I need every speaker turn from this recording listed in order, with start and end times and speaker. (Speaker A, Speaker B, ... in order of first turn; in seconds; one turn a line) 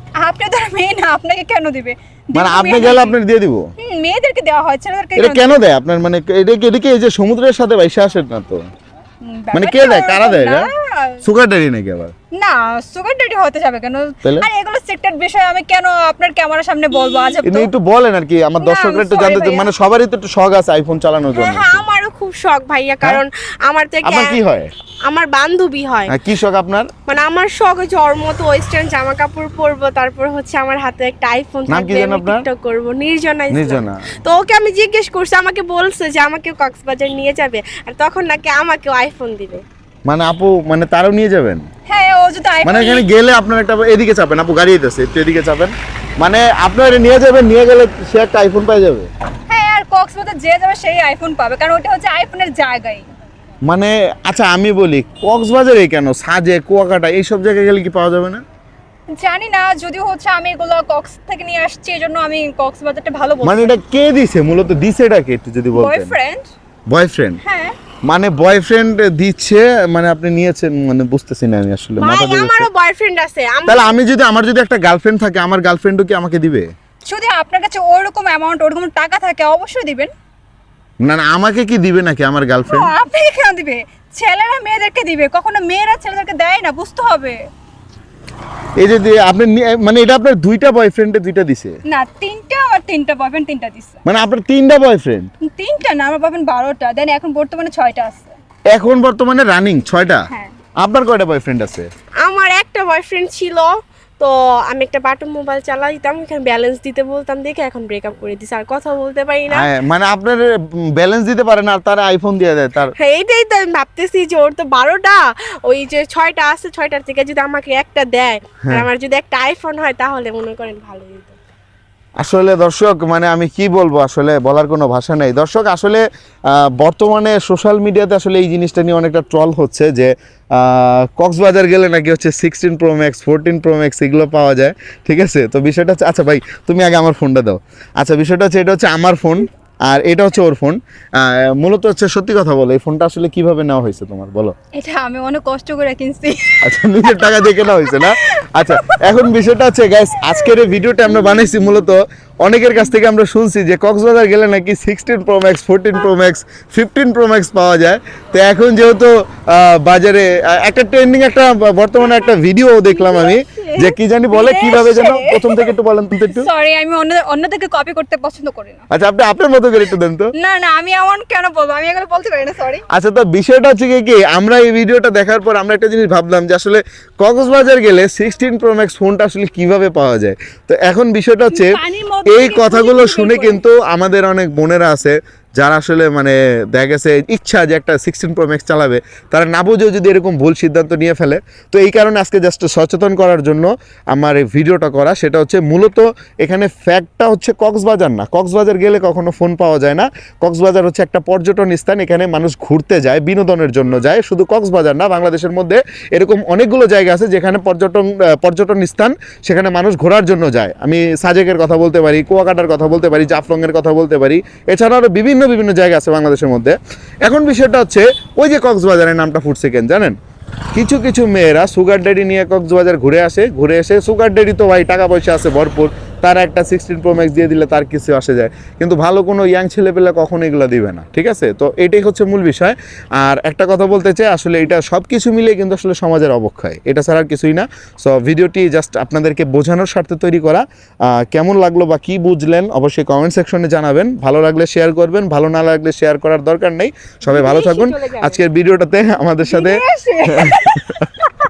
Speaker A: 0.2-3.2
Speaker B: 2.3-3.7
Speaker A: 3.8-5.6
Speaker B: 5.2-8.6
Speaker A: 9.2-11.2
Speaker B: 9.5-10.7
Speaker B: 11.2-12.1
Speaker A: 12.3-17.7
Speaker C: 16.9-17.4
Speaker B: 17.4-21.8
Speaker A: 18.6-19.7
Speaker C: 21.3-24.4
Speaker B: 24.0-24.7
Speaker C: 25.1-26.1
Speaker B: 26.1-26.9
Speaker C: 27.1-39.6
Speaker B: 31.7-32.4
Speaker B: 33.5-34.0
Speaker B: 40.1-41.7
Speaker A: 41.9-43.0
Speaker B: 42.6-49.1
Speaker A: 49.5-53.1
Speaker B: 53.6-58.4
Speaker A: 59.1-63.8
Speaker B: 63.4-66.2
Speaker A: 65.7-66.5
Speaker B: 66.9-67.4
Speaker A: 67.4-67.8
Speaker B: 68.0-72.7
Speaker C: 72.0-74.0
Speaker B: 73.7-76.7
Speaker A: 77.1-80.1
Speaker B: 81.0-82.9
Speaker A: 82.7-87.4
Speaker B: 88.8-91.8
Speaker A: 91.9-94.0
Speaker B: 94.0-95.3
Speaker A: 95.5-98.3
Speaker B: 98.7-100.3
Speaker B: 100.8-101.9
Speaker C: 102.2-109.7
Speaker B: 109.5-112.9
Speaker C: 113.0-121.4
Speaker B: 122.2-144.5
Speaker A: 144.7-149.0
Speaker B: 146.6-166.5
Speaker A: 162.9-165.7
Speaker A: 166.3-168.9
Speaker B: 168.9-170.3
Speaker A: 170.4-172.8
Speaker B: 172.9-220.2
Speaker A: 181.5-183.6
Speaker B: 220.7-251.1
Speaker C: 247.2-248.4
Speaker A: 249.4-251.3